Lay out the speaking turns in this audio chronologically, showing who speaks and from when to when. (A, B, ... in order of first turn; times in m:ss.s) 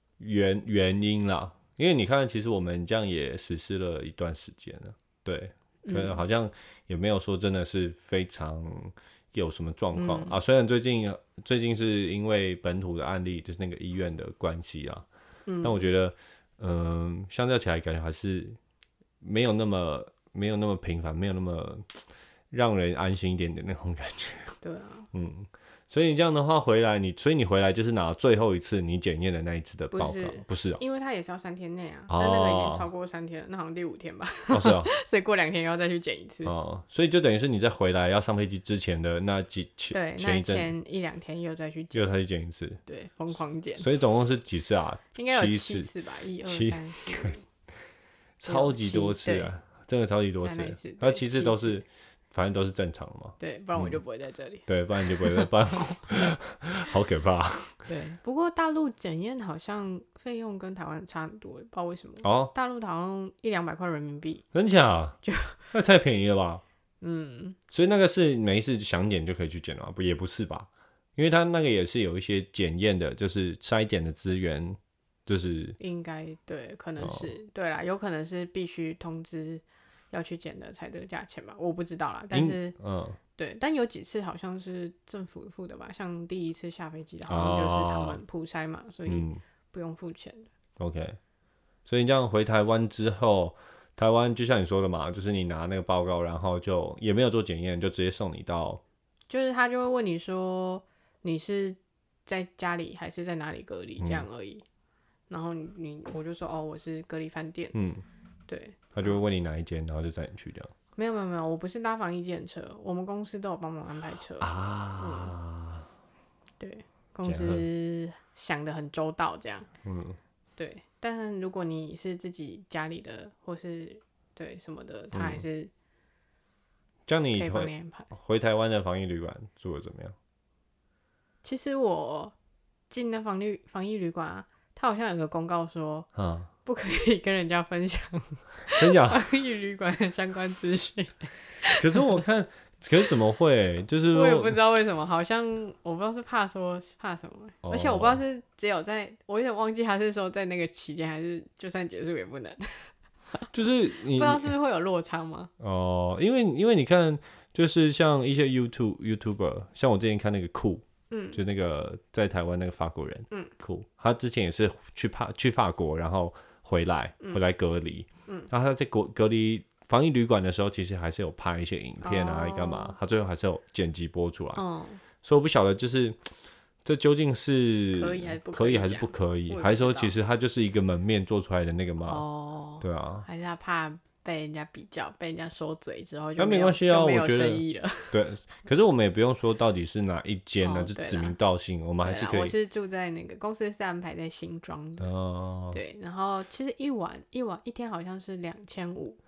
0:00.2-0:15.0 A
0:05.8-0:06.2 B
0:09.9-0:10.4 B
0:15.4-0:15.9 B
0:15.6-0:18.6 A
0:19.2-0:22.0 A
0:22.5-0:24.5 A
0:24.6-0:25.1 B
0:25.1-0:30.8 A
0:29.9-0:36.5 B
0:32.1-0:32.9 A
0:34.5-0:34.9 A
0:36.4-0:40.7 A
0:39.9-0:42.0 B
0:41.9-0:42.8 A
0:42.8-0:43.9 B
0:43.8-0:45.9 A
0:45.1-0:47.4 B
0:46.4-0:47.3 A
0:48.4-0:54.0 A
0:48.4-0:49.5 B
0:50.4-0:51.8 B
0:53.4-0:56.3 B
0:54.7-0:57.8 A
0:57.9-1:04.4 B
1:02.2-1:02.5 A
1:04.5-1:05.2 A
1:05.2-1:05.6 B
1:05.7-1:06.6 A
1:07.0-1:07.6 B
1:07.7-1:15.8 A
1:15.8-1:22.7 B
1:17.0-1:17.3 A
1:22.3-1:23.2 A
1:23.4-1:30.5 B
1:27.3-1:28.2 A
1:29.1-1:29.4 A
1:30.8-1:31.2 A
1:31.8-1:38.8 A
1:39.3-1:44.6 B
1:44.0-1:44.2 A
1:45.3-1:47.7 B
1:47.7-1:48.0 A
1:48.5-1:48.9 B
1:48.9-1:50.7 A
1:51.0-1:55.3 B
1:54.4-1:55.9 A
1:56.6-1:59.7 B
1:57.2-1:57.6 A
1:59.8-2:00.2 A
2:00.6-2:05.7 B
2:05.1-2:05.4 A
2:07.1-2:10.1 A
2:07.4-2:08.1 B
2:11.4-2:12.3 B
2:12.9-2:16.1 B
2:16.1-2:16.5 A
2:16.6-2:22.2 B
2:18.7-2:19.3 A
2:21.7-2:24.6 A
2:24.1-2:33.4 B
2:27.6-2:28.2 A
2:33.5-2:34.5 A
2:34.0-2:35.5 B
2:35.6-2:54.6 A
2:41.1-2:41.4 B
2:52.0-2:53.0 B
2:54.6-2:55.0 B
2:55.2-2:56.3 A
2:56.8-3:02.2 A
2:57.9-3:00.1 B
3:02.0-3:08.2 B
3:02.8-3:03.2 A
3:06.4-3:12.5 A
3:10.6-3:11.3 B
3:12.0-3:15.1 B
3:15.0-3:15.8 A
3:15.7-3:19.2 B